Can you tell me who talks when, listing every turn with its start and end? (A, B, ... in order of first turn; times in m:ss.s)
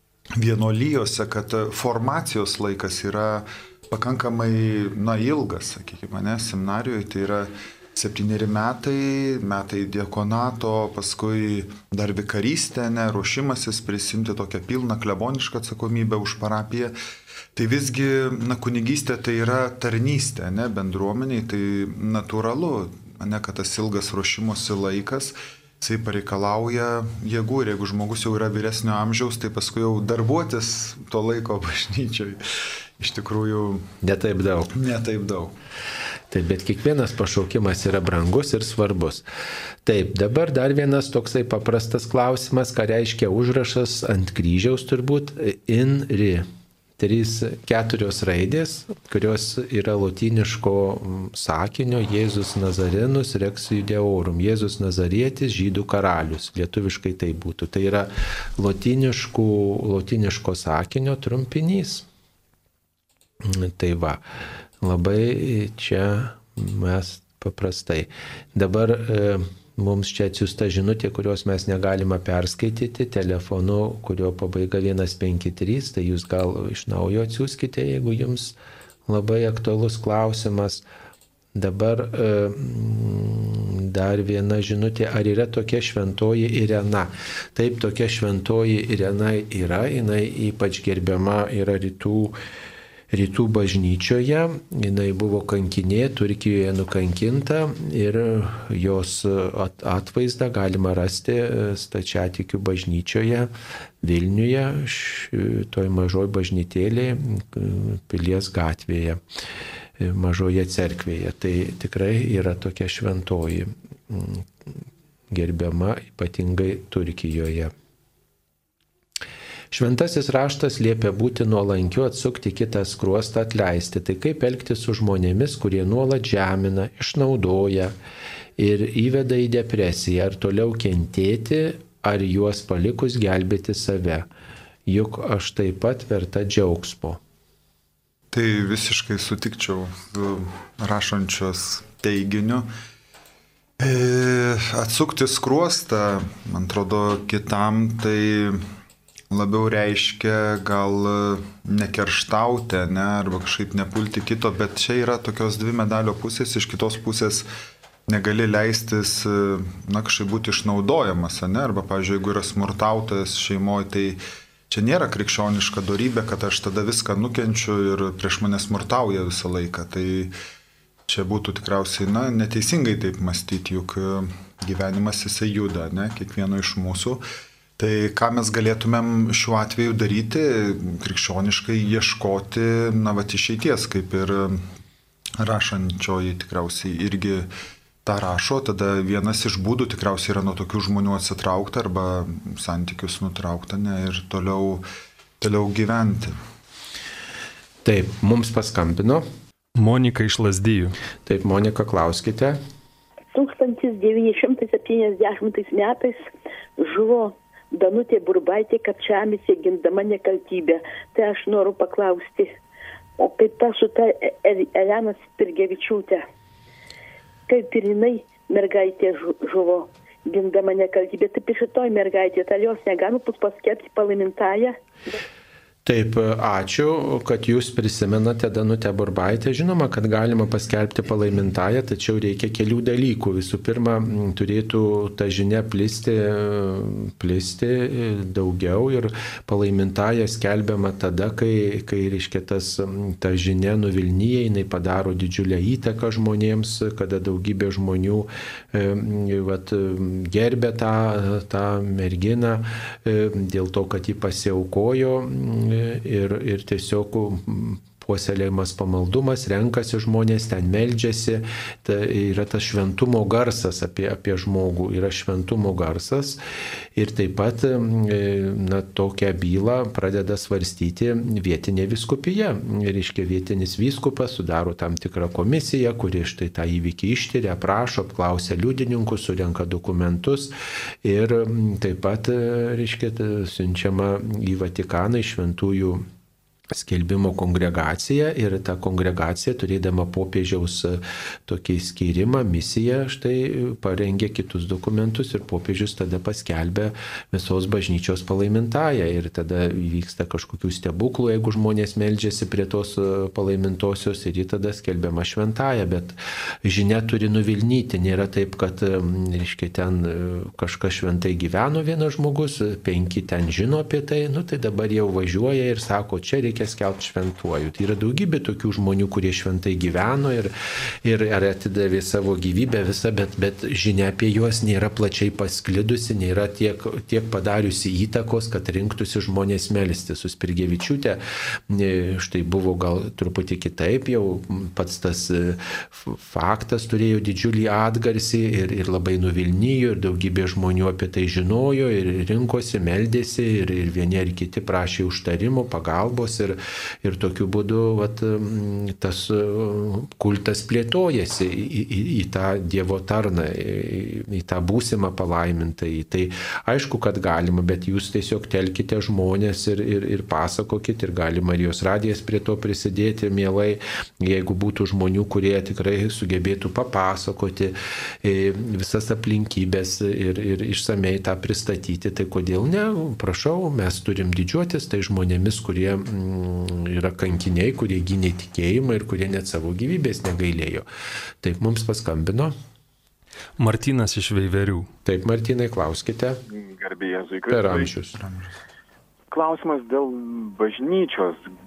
0:00.4-0:16.9 A
0:17.6-0:32.4 A
0:33.0-0:33.9 A
0:34.0-0:34.7 B
0:34.8-0:35.5 A
0:36.3-0:39.2 B
0:39.9-0:46.5 B
0:47.0-1:02.0 B
1:03.4-1:04.2 B
1:04.8-1:18.6 B
1:19.1-1:20.8 B
1:21.6-1:32.4 B
1:33.1-1:43.5 B
1:44.0-1:49.2 B
1:50.0-1:54.8 B
1:55.3-1:57.7 B
1:59.7-2:07.9 B
2:08.6-2:14.2 B
2:14.9-2:17.2 B
2:18.3-2:22.7 A
2:23.8-2:28.7 A
2:29.3-2:37.5 A
2:38.1-2:50.3 A
2:51.1-2:57.2 A
2:57.8-3:04.7 A
3:05.4-3:07.5 A
3:08.0-3:14.8 A
3:15.4-3:16.4 A
3:17.8-3:19.2 B
3:19.8-3:21.0 C
3:21.3-3:22.6 B
3:23.3-3:32.6 D
3:33.2-3:36.3 D
3:37.5-3:44.8 D
3:45.8-4:26.4 B
4:27.0-4:40.5 B
4:41.0-4:46.0 B
4:46.7-5:20.5 B
5:21.0-5:31.2 B
5:31.7-6:20.9 B
6:21.4-6:22.6 B
6:23.6-6:24.9 C
6:25.0-6:26.4 B
6:26.5-6:28.2 E
6:27.5-6:28.2 B
6:29.3-6:31.4 E